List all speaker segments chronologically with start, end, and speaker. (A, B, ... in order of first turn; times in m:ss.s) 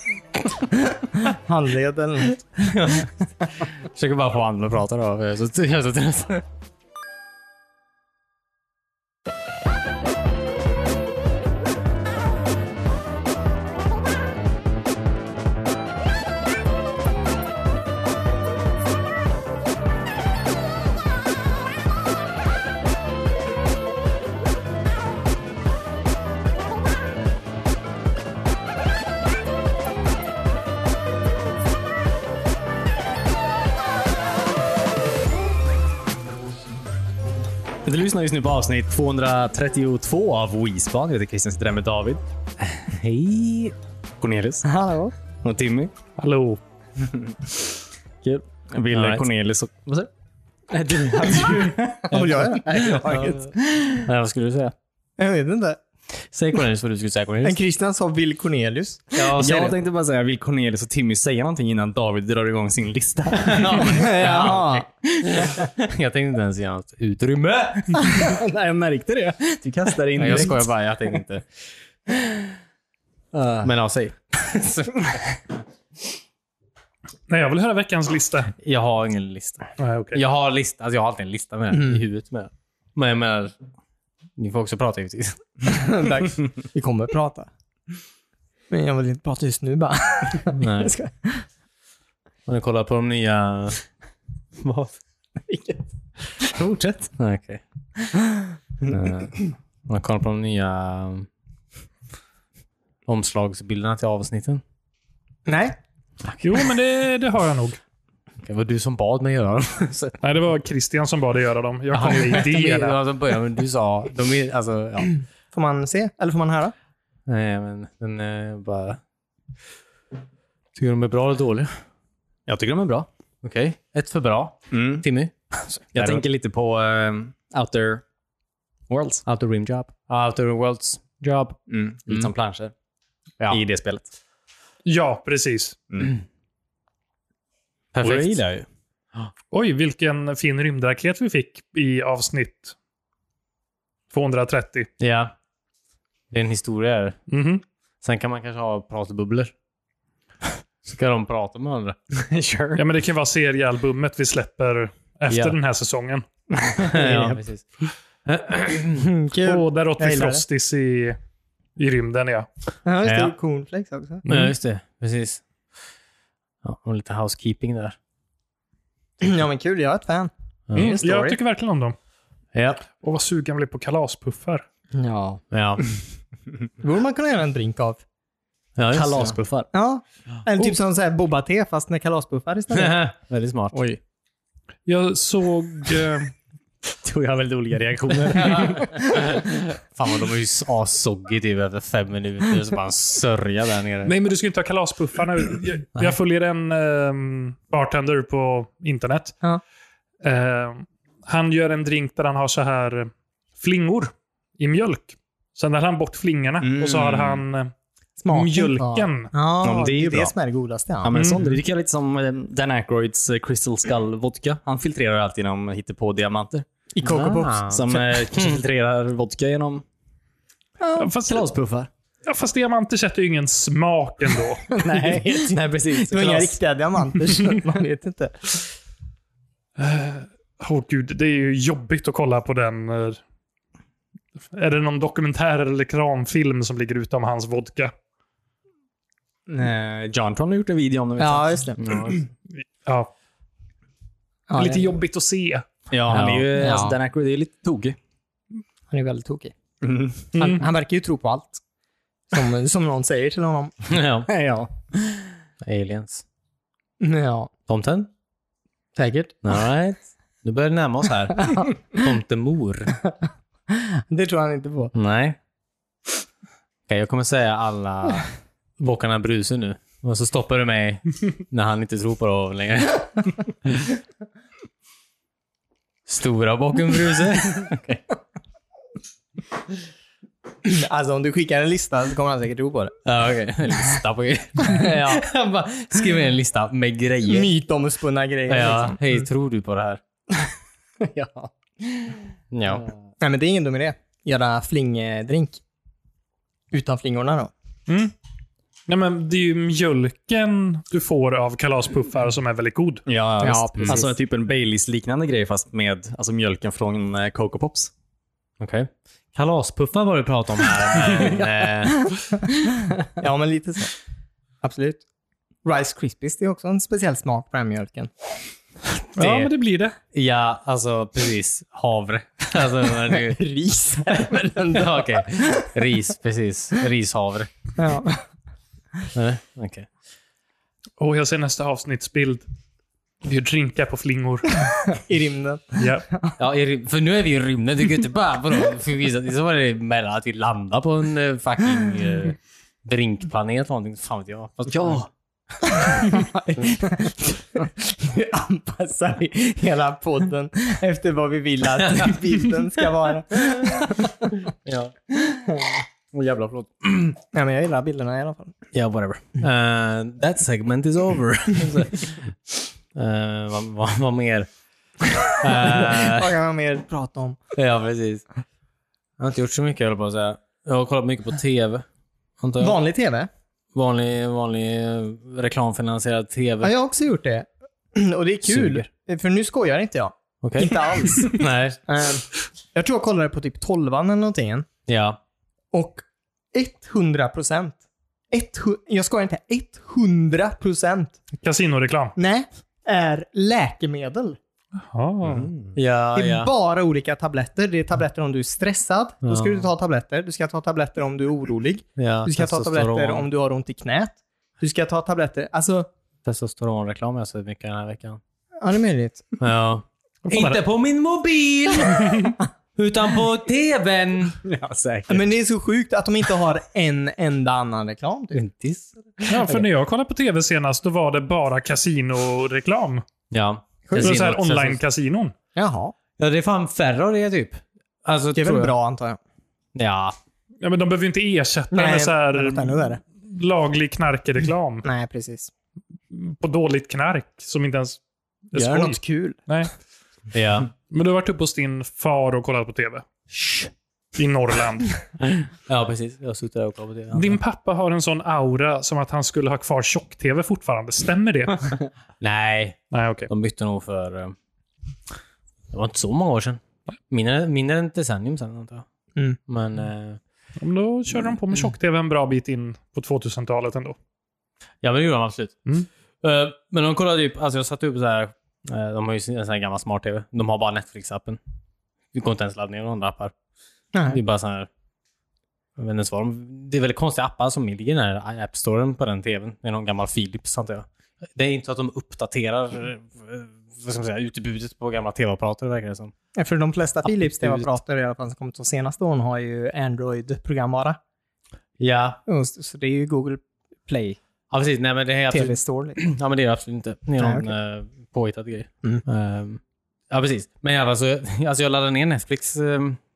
0:00.9-0:02.4 A
0:02.6-0:06.4 B
0:37.8-0:42.2 C
0:42.6-0:43.7 B
0:44.2-0:44.6 C
0:44.6-0:45.1 A
0:45.4-0:45.9 C
0:46.2-0:46.6 D
0:48.2-0:50.1 C
0:48.9-0:49.2 B
0:50.9-0:52.1 C
0:51.0-0:54.7 B
0:51.2-0:51.6 A
0:52.1-0:53.5 A
0:55.2-0:55.8 A
0:56.3-0:57.6 B
0:57.4-0:59.7 A
0:59.1-0:59.7 B
0:59.3-1:04.5 C
1:03.4-1:08.3 B
1:03.8-1:04.8 A
1:08.0-1:09.6 A
1:09.6-1:10.6 C
1:10.2-1:11.4 B
1:10.2-1:10.5 A
1:13.6-1:15.4 B
1:17.3-1:18.5 D
1:18.6-1:23.5 B
1:19.8-1:20.2 D
1:24.4-1:25.4 B
1:25.7-1:27.5 A
1:28.7-1:31.4 A
1:30.5-1:30.9 B
1:32.4-1:33.8 B
1:34.6-1:34.9 B
1:35.5-1:35.8 A
1:36.6-1:38.1 B
1:38.8-1:41.3 B
1:43.0-1:44.6 B
1:45.4-1:45.7 A
1:46.4-1:47.8 D
1:48.4-1:50.2 B
1:50.2-1:53.0 D
1:51.9-1:55.1 B
1:55.5-1:56.7 A
1:57.3-1:59.0 B
2:00.7-2:01.7 B
2:02.5-2:03.1 C
2:03.4-2:06.2 B
2:04.7-2:05.0 C
2:05.9-2:08.0 C
2:08.9-2:09.2 C
2:09.2-2:12.7 B
2:11.7-2:12.3 C
2:13.5-2:14.1 C
2:14.8-2:15.8 D
2:17.9-2:18.4 B
2:18.0-2:18.6 C
2:19.5-2:22.7 D
2:24.1-2:24.9 D
2:25.0-2:25.3 B
2:26.3-2:27.2 B
2:27.3-2:27.6 D
2:28.0-2:29.5 B
2:30.8-2:32.0 B
2:32.1-2:32.8 C
2:32.8-2:36.2 D
2:35.3-2:35.6 B
2:36.7-2:39.1 B
2:36.7-2:37.4 A
2:39.0-2:40.4 A
2:39.3-2:41.2 D
2:41.8-2:42.5 D
2:42.8-2:44.2 A
2:43.0-2:43.3 B
2:44.2-2:45.4 B
2:46.6-2:48.0 B
2:49.2-2:50.3 A
2:50.7-2:51.3 B
2:50.7-2:52.0 D
2:52.5-2:52.8 B
2:53.0-2:54.6 D
2:55.0-2:55.4 A
2:55.5-2:55.8 B
2:56.8-2:58.0 A
2:58.8-2:59.4 B
2:58.9-2:59.7 C
2:59.7-3:03.0 A
3:02.7-3:03.8 B
3:03.7-3:04.0 C
3:04.8-3:06.3 D
3:07.0-3:08.9 C
3:08.1-3:14.1 B
3:14.0-3:19.4 D
3:20.2-3:27.7 D
3:26.6-3:27.4 C
3:28.2-3:31.1 A
3:28.3-3:29.3 D
3:29.6-3:30.3 C
3:31.0-3:36.6 C
3:31.1-3:31.6 D
3:36.9-3:37.7 A
3:37.0-3:38.6 B
3:37.7-3:39.8 C
3:40.8-3:41.0 A
3:41.0-3:41.4 D
3:41.2-3:41.9 B
3:42.2-3:44.6 D
3:44.8-3:45.5 A
3:44.9-3:46.5 C
3:45.0-3:46.4 B
3:46.1-3:48.6 A
3:49.8-3:53.2 D
3:54.5-3:57.9 D
3:59.5-4:01.7 C
4:01.2-4:02.2 A
4:01.8-4:02.2 B
4:02.5-4:03.1 D
4:04.5-4:04.9 A
4:04.6-4:05.6 D
4:05.9-4:08.0 C
4:06.1-4:06.5 B
4:06.6-4:07.0 A
4:08.9-4:09.5 A
4:09.8-4:10.2 C
4:10.3-4:10.6 D
4:10.4-4:11.6 A
4:12.3-4:13.7 A
4:13.9-4:14.3 B
4:14.3-4:14.6 C
4:15.6-4:16.2 B
4:17.0-4:17.5 A
4:17.7-4:18.1 B
4:19.0-4:19.4 A
4:19.4-4:23.0 B
4:23.7-4:24.9 A
4:24.9-4:25.4 B
4:26.9-4:33.8 B
4:36.1-4:38.1 B
4:40.6-4:42.9 A
4:43.0-4:47.5 B
4:44.6-4:45.2 A
4:47.2-4:49.2 A
4:48.5-4:50.0 B
4:51.0-4:51.5 A
4:52.5-4:52.9 B
4:53.2-4:55.6 A
4:56.7-4:57.5 A
4:57.9-4:58.1 D
4:58.9-5:03.0 D
5:03.1-5:07.9 C
5:03.4-5:04.1 A
5:08.6-5:12.4 B
5:13.2-5:13.9 A
5:14.6-5:15.0 A
5:15.6-5:18.1 A
5:18.9-5:19.5 B
5:19.2-5:19.9 D
5:20.1-5:23.4 B
5:23.2-5:24.9 A
5:24.1-5:27.5 B
5:27.8-5:28.2 A
5:29.1-5:29.9 B
5:31.0-5:32.4 D
5:33.2-5:34.6 D
5:34.9-5:36.4 A
5:35.8-5:36.0 D
5:36.4-5:45.1 B
5:45.8-5:54.3 A
5:51.8-5:52.1 B
5:53.6-5:55.4 B
5:56.1-5:57.2 B
5:57.3-5:58.5 A
5:58.7-6:04.5 B
6:05.3-6:06.3 B
6:05.5-6:07.4 A
6:07.5-6:08.2 B
6:09.2-6:11.8 B
6:12.4-6:12.8 B
6:12.6-6:13.3 A
6:13.7-6:16.7 B
6:16.6-6:24.7 A
6:18.5-6:18.8 B
6:20.4-6:21.8 B
6:24.9-6:25.2 B
6:25.7-6:27.8 A
6:28.3-6:31.2 A
6:31.4-6:32.1 D
6:32.2-6:34.4 A
6:34.8-6:35.5 D
6:35.2-6:35.7 C
6:35.7-6:36.5 B
6:36.1-6:45.9 A
6:39.2-6:39.7 B
6:42.0-6:43.3 B
6:46.2-6:48.2 B
6:48.6-6:49.2 A
6:49.4-6:55.0 B
6:50.2-6:50.6 D
6:54.5-6:55.2 C
6:55.1-6:58.4 A
6:58.3-6:59.6 B
6:59.3-7:03.0 D
7:03.3-7:04.8 B
7:04.0-7:05.3 D
7:05.6-7:05.9 A
7:06.2-7:08.7 B
7:08.3-7:09.2 A
7:09.7-7:10.1 B
7:10.6-7:14.8 D
7:11.7-7:13.0 A
7:14.8-7:15.5 A
7:16.1-7:18.0 D
7:18.5-7:19.7 D
7:18.5-7:19.4 A
7:20.3-7:20.7 B
7:20.9-7:23.0 D
7:23.4-7:23.7 B
7:24.2-7:25.0 D
7:25.2-7:27.4 B
7:27.1-7:31.7 D
7:32.2-7:34.3 B
7:32.9-7:33.3 D
7:35.7-7:38.8 B
7:39.5-7:40.2 B
7:40.6-7:44.0 D
7:44.8-7:45.6 B
7:46.2-7:51.4 B
7:52.1-7:53.3 B
7:53.9-7:54.2 A
7:54.1-7:54.7 B
7:55.8-8:06.1 B
8:06.3-8:11.0 A
8:07.0-8:07.7 B
8:11.8-8:12.2 B
8:12.3-8:14.2 A
8:14.5-8:23.0 B
8:15.3-8:16.0 A
8:17.2-8:17.5 A